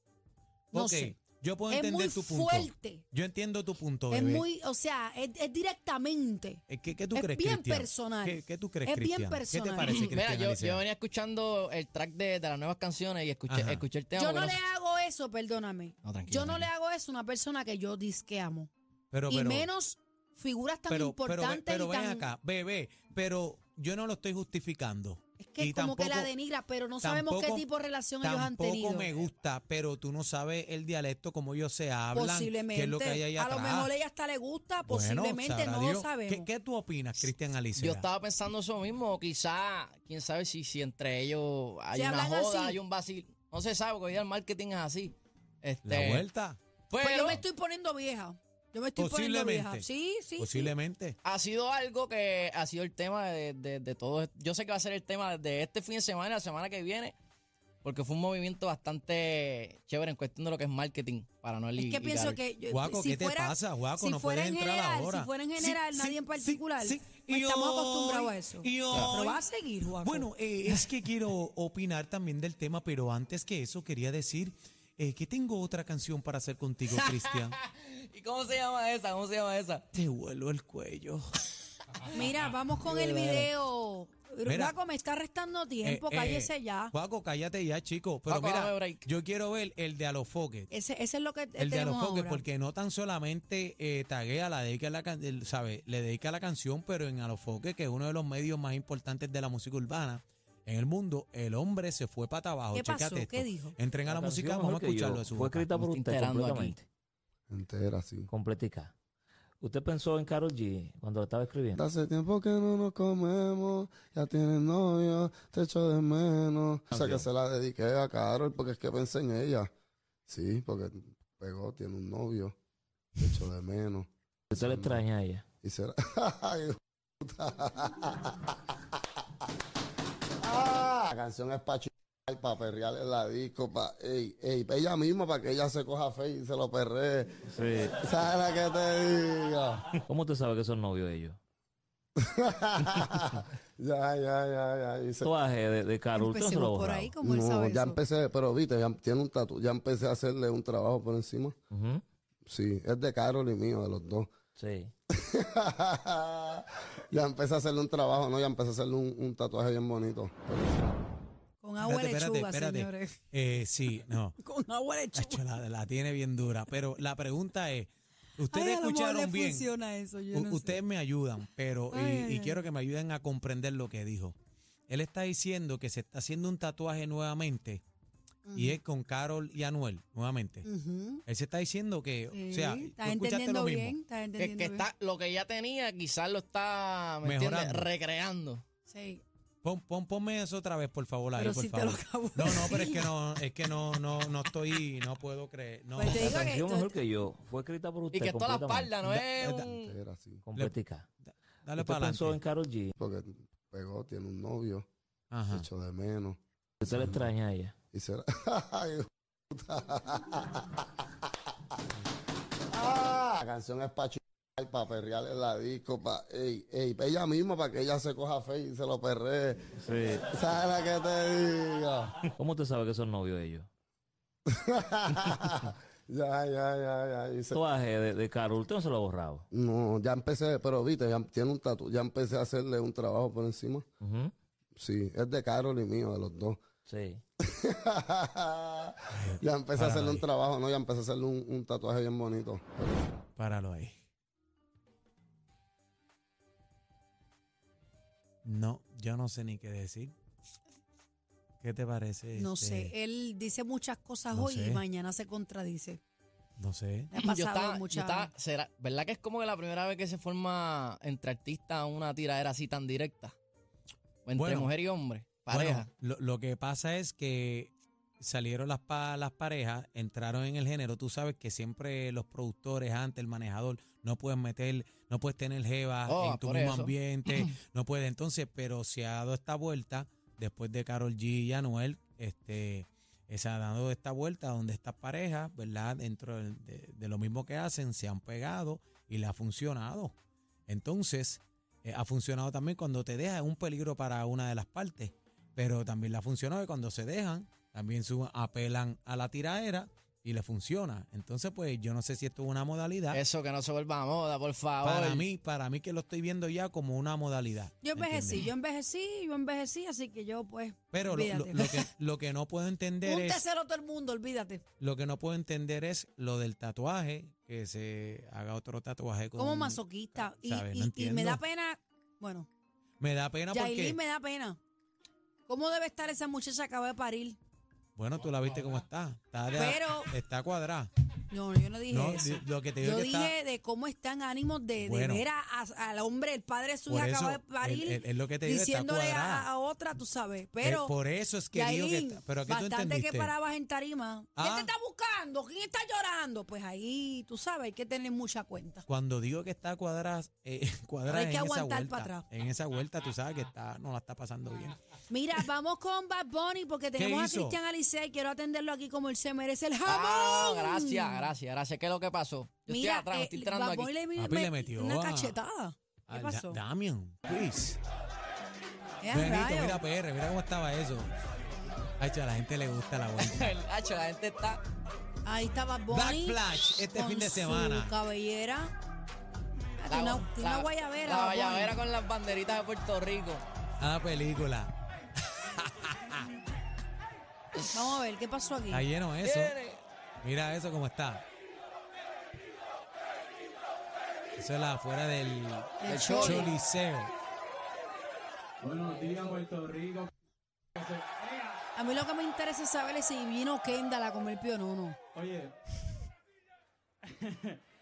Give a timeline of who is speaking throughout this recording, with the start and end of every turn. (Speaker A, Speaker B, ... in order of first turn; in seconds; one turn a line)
Speaker A: 0.7-4.5
Speaker B: 0.7-1.2
Speaker B: 1.7-3.0
Speaker B: 4.1-6.6
Speaker A: 6.7-10.8
Speaker B: 7.1-10.1
Speaker C: 9.9-14.6
Speaker A: 13.5-13.8
Speaker B: 14.2-18.7
Speaker C: 16.0-16.7
Speaker A: 19.1-19.7
Speaker B: 19.3-22.3
Speaker A: 20.9-26.3
Speaker B: 25.4-29.1
Speaker A: 27.0-27.6
Speaker A: 28.2-33.9
Speaker B: 32.1-36.5
Speaker A: 34.9-38.1
Speaker C: 37.8-46.2
Speaker B: 41.9-42.8
Speaker A: 45.9-46.6
Speaker C: 46.9-47.4
Speaker B: 47.0-50.7
Speaker A: 49.0-49.9
Speaker A: 50.4-51.2
Speaker C: 51.2-57.1
Speaker C: 57.8-62.4
Speaker B: 61.8-70.3
Speaker A: 62.7-69.5
Speaker A: 70.0-77.6
Speaker C: 76.9-79.8
Speaker A: 79.9-81.3
Speaker B: 82.1-86.9
Speaker A: 84.5-84.8
Speaker A: 85.8-90.7
Speaker C: 88.3-89.1
Speaker B: 90.7-92.4
Speaker A: 91.6-105.7
Speaker B: 102.7-103.8
Speaker D: 104.0-106.8
Speaker C: 105.8-106.8
Speaker E: 107.5-108.3
Speaker D: 108.3-108.9
Speaker D: 109.6-111.8
Speaker E: 111.8-119.7
Speaker D: 116.9-117.3
Speaker E: 120.3-122.5
Speaker E: 123.2-125.0
Speaker D: 124.5-125.4
Speaker E: 125.6-128.8
Speaker E: 130.4-139.9
Speaker D: 137.5-137.9
Speaker D: 140.1-141.4
Speaker E: 142.2-145.3
Speaker D: 145.2-147.2
Speaker B: 146.2-148.0
Speaker E: 147.2-151.6
Speaker D: 151.7-152.0
Speaker E: 152.5-154.3
Speaker D: 154.6-154.9
Speaker E: 155.1-160.8
Speaker B: 161.6-163.2
Speaker A: 161.8-164.4
Speaker B: 164.4-165.4
Speaker A: 165.2-169.7
Speaker B: 168.5-170.8
Speaker A: 170.3-174.3
Speaker B: 171.9-172.6
Speaker A: 174.9-177.8
Speaker B: 178.5-178.8
Speaker A: 178.5-180.7
Speaker B: 180.7-181.2
Speaker A: 181.3-184.0
Speaker B: 182.3-184.9
Speaker C: 184.4-188.6
Speaker A: 187.2-187.9
Speaker B: 188.9-189.2
Speaker A: 189.6-196.5
Speaker B: 191.4-193.1
Speaker B: 196.0-196.9
Speaker D: 196.1-199.0
Speaker C: 198.1-200.0
Speaker A: 199.1-199.7
Speaker E: 199.6-200.4
Speaker D: 200.4-201.1
Speaker A: 200.5-202.4
Speaker D: 201.8-202.9
Speaker E: 203.0-204.9
Speaker A: 205.3-205.7
Speaker E: 205.5-207.3
Speaker D: 206.8-207.7
Speaker E: 207.9-211.1
Speaker E: 212.7-222.2
Speaker D: 219.8-220.3
Speaker D: 222.4-223.7
Speaker E: 224.5-227.6
Speaker D: 227.5-229.5
Speaker E: 229.5-233.9
Speaker D: 234.0-234.3
Speaker E: 234.8-236.6
Speaker D: 236.9-237.2
Speaker E: 237.5-243.1
Speaker A: 239.1-240.2
Speaker A: 243.4-243.9
Speaker A: 248.4-250.1
Speaker A: 251.6-252.9
Speaker B: 252.4-256.0
Speaker A: 254.3-254.8
Speaker A: 256.6-257.1
Speaker B: 257.1-258.3
Speaker C: 257.1-263.4
Speaker C: 264.3-265.9
Speaker A: 264.4-264.7
Speaker A: 265.5-290.1
Speaker C: 276.1-277.6
Speaker A: 290.7-303.2
Speaker C: 303.1-305.2
Speaker A: 304.8-308.5
Speaker B: 307.8-311.9
Speaker A: 310.9-313.4
Speaker B: 313.1-314.6
Speaker A: 314.8-321.4
Speaker B: 319.4-322.5
Speaker A: 323.0-324.0
Speaker B: 323.5-324.6
Speaker B: 325.5-327.4
Speaker A: 328.0-330.9
Speaker B: 329.5-330.1
Speaker B: 331.3-340.9
Speaker A: 331.9-333.4
Speaker A: 334.8-335.2
Speaker A: 336.9-339.5
Speaker A: 340.6-343.3
Speaker B: 341.5-348.9
Speaker A: 344.4-344.7
Speaker A: 348.9-354.8
Speaker B: 351.1-352.3
Speaker B: 355.1-361.3
Speaker A: 357.0-357.6
Speaker C: 359.9-363.9
Speaker B: 362.7-366.6
Speaker A: 364.2-365.4
Speaker A: 366.1-367.8
Speaker B: 369.0-369.8
Speaker A: 369.1-371.1
Speaker A: 372.0-373.5
Speaker C: 373.2-374.6
Speaker B: 375.2-378.7
Speaker A: 375.9-377.9
Speaker B: 379.8-381.8
Speaker C: 379.9-383.4
Speaker A: 383.8-384.7
Speaker A: 385.2-386.2
Speaker B: 387.7-388.9
Speaker A: 388.7-389.6
Speaker C: 389.2-389.8
Speaker A: 390.2-391.2
Speaker A: 394.4-397.1
Speaker B: 395.8-396.5
Speaker C: 395.9-396.5
Speaker F: 398.6-400.1
Speaker F: 400.8-401.6
Speaker B: 401.8-405.0
Speaker F: 405.1-405.6
Speaker F: 407.1-407.6